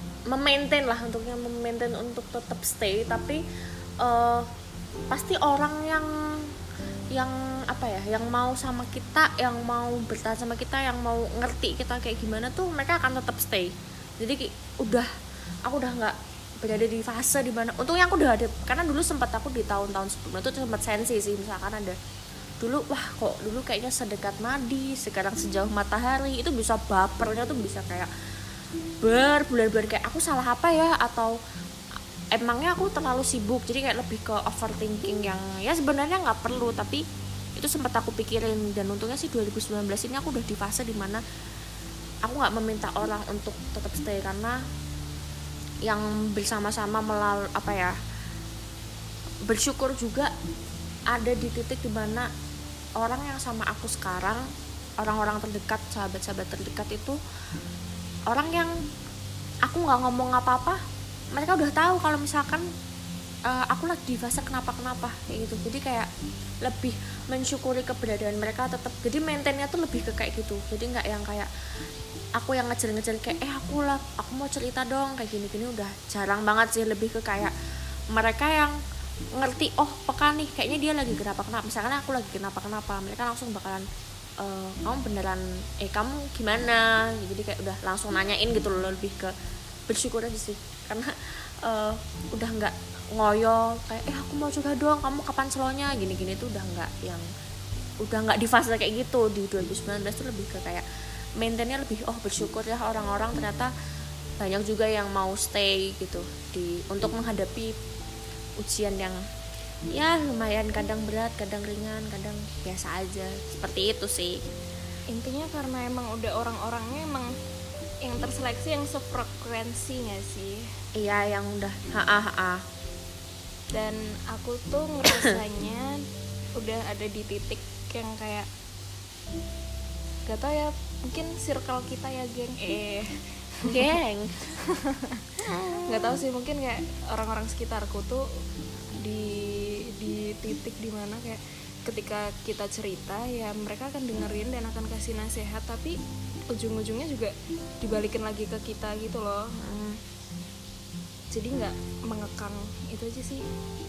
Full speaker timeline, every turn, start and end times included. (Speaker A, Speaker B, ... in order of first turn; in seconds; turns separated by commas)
Speaker A: 0.3-3.4, Speaker A: 4.0-4.5, Speaker A: 5.1-6.5, Speaker A: 7.1-15.1, Speaker A: 15.7-22.0, Speaker A: 22.6-28.1, Speaker A: 29.0-31.4, Speaker A: 32.3-37.0, Speaker A: 37.5-41.2, Speaker A: 42.2-44.6, Speaker A: 45.8-47.9, Speaker A: 49.5-50.3, Speaker A: 51.1-52.3, Speaker A: 53.0-54.5, Speaker A: 55.0-57.2, Speaker A: 58.3-58.7, Speaker A: 59.6-60.8, Speaker A: 61.3-62.7, Speaker A: 63.5-66.1, Speaker A: 66.6-71.5, Speaker A: 72.4-77.5, Speaker A: 78.1-78.8, Speaker A: 79.3-83.8, Speaker A: 84.4-89.3, Speaker A: 89.9-97.2, Speaker A: 98.0-100.8, Speaker A: 101.4-103.7, Speaker A: 104.4-107.7, Speaker A: 108.6-109.2, Speaker A: 109.9-114.4, Speaker B: 115.1-117.3, Speaker B: 118.0-120.8, Speaker A: 120.9-122.6, Speaker B: 123.7-126.0, Speaker A: 125.0-125.4, Speaker B: 126.5-128.5, Speaker B: 130.3-133.9, Speaker A: 133.6-134.4, Speaker B: 134.5-138.4, Speaker A: 135.5-136.0, Speaker B: 139.0-146.0, Speaker B: 146.5-149.5, Speaker A: 149.5-150.0, Speaker B: 151.3-153.4